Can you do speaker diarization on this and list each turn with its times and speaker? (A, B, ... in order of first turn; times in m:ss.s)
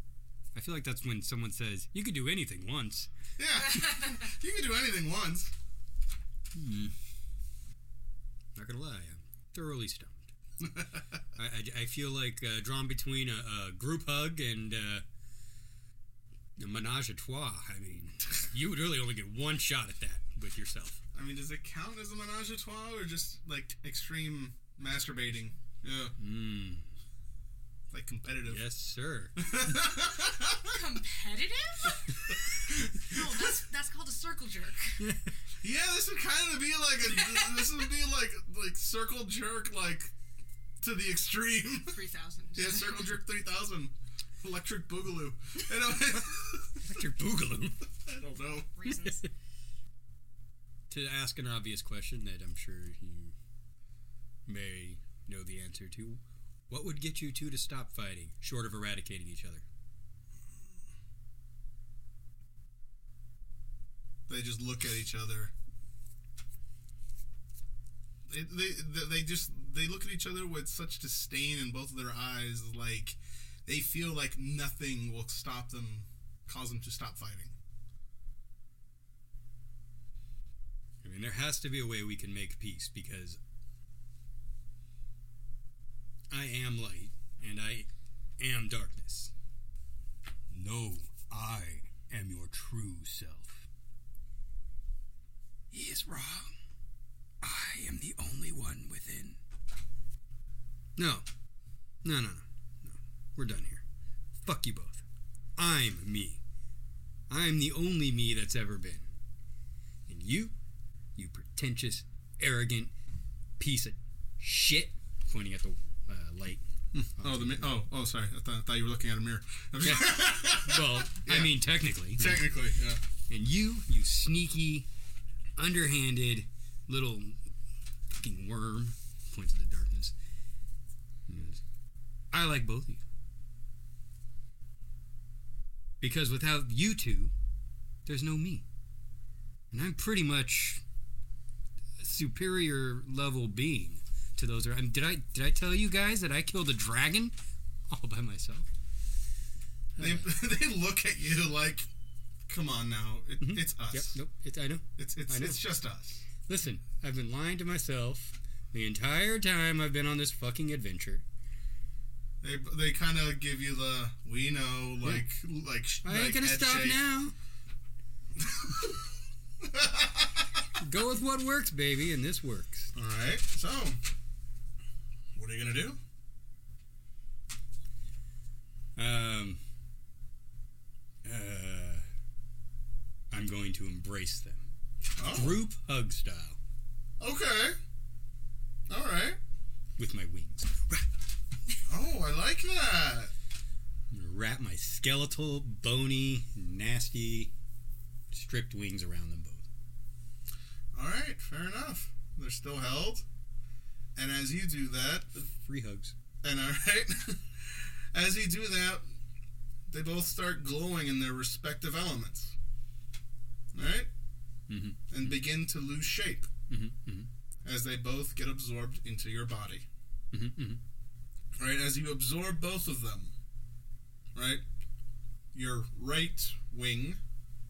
0:00.6-0:03.1 A
0:03.4-0:05.5 B
0:06.5-0:07.0 A
0:08.6-0:10.3 A
0:10.6-0:11.0 B
0:11.4-0:15.0 A
0:16.6-0:21.0 A
0:21.1-0:26.1 B
0:26.2-0:26.8 A
0:27.9-0:28.6 B
0:28.4-0:30.0 A
0:29.4-0:30.8 B
0:30.7-0:35.0 C
0:35.0-0:35.3 A
0:35.6-0:40.1 B
0:37.0-0:37.7 C
0:40.8-0:42.0 B
0:41.8-0:43.1 C
0:42.5-0:46.8 B
0:46.8-0:47.8 A
0:48.1-0:48.7 B
0:48.7-0:49.2 C
0:48.9-0:49.2 A
0:50.9-0:53.4 A
0:54.5-0:59.6 A
1:04.3-1:05.5 B
1:08.3-1:17.5 B
1:21.0-1:23.4 A
1:26.3-1:27.9 A
1:28.4-1:29.3 A
1:30.5-1:33.7 A
1:35.7-1:36.5 A
1:37.4-1:39.4 A
1:41.0-1:41.2 A
1:42.0-1:43.8 A
1:44.4-1:45.0 A
1:45.6-1:46.4 A
1:47.3-1:49.0 A
1:50.1-1:50.5 A
1:51.2-1:52.9 A
1:53.6-1:56.6 A
1:56.9-2:01.6 B
1:57.1-1:57.8 A
1:59.8-2:02.5 A
2:02.1-2:03.0 B
2:03.3-2:04.9 A
2:05.6-2:07.4 A
2:08.1-2:10.1 A
2:11.3-2:11.6 A
2:12.3-2:13.0 A
2:16.0-2:17.3 A
2:18.1-2:18.6 A
2:19.7-2:20.8 A
2:22.0-2:27.3 A
2:27.9-2:28.7 A
2:30.0-2:30.3 A
2:30.0-2:31.9 B
2:32.5-2:34.2 B
2:33.4-2:35.6 A
2:35.0-2:36.2 B
2:36.4-2:41.2 A
2:42.4-2:47.0 B
2:46.0-2:47.3 A
2:48.4-2:49.0 B
2:49.6-2:50.5 B
2:50.8-2:52.9 A
2:52.9-2:54.0 B
2:55.4-2:56.0 B
2:59.0-2:59.6 A
3:01.2-3:02.0 A
3:03.3-3:04.6 A
3:05.2-3:05.6 B
3:05.3-3:06.6 A
3:07.2-3:07.8 B
3:08.9-3:09.4 B
3:10.0-3:11.0 A
3:11.9-3:13.3 B
3:14.1-3:17.5 A
3:18.3-3:19.6 A
3:20.9-3:23.2 B
3:24.2-3:25.4 B
3:25.3-3:26.1 A
3:26.4-3:29.0 B
3:29.9-3:32.6 B
3:33.7-3:34.1 B
3:34.7-3:35.4 A
3:35.1-3:36.5 B
3:36.7-3:37.3 A
3:37.6-3:39.8 B
3:40.3-3:40.8 A
3:41.6-3:43.3 B
3:44.4-3:44.6 B
3:45.5-3:47.2 B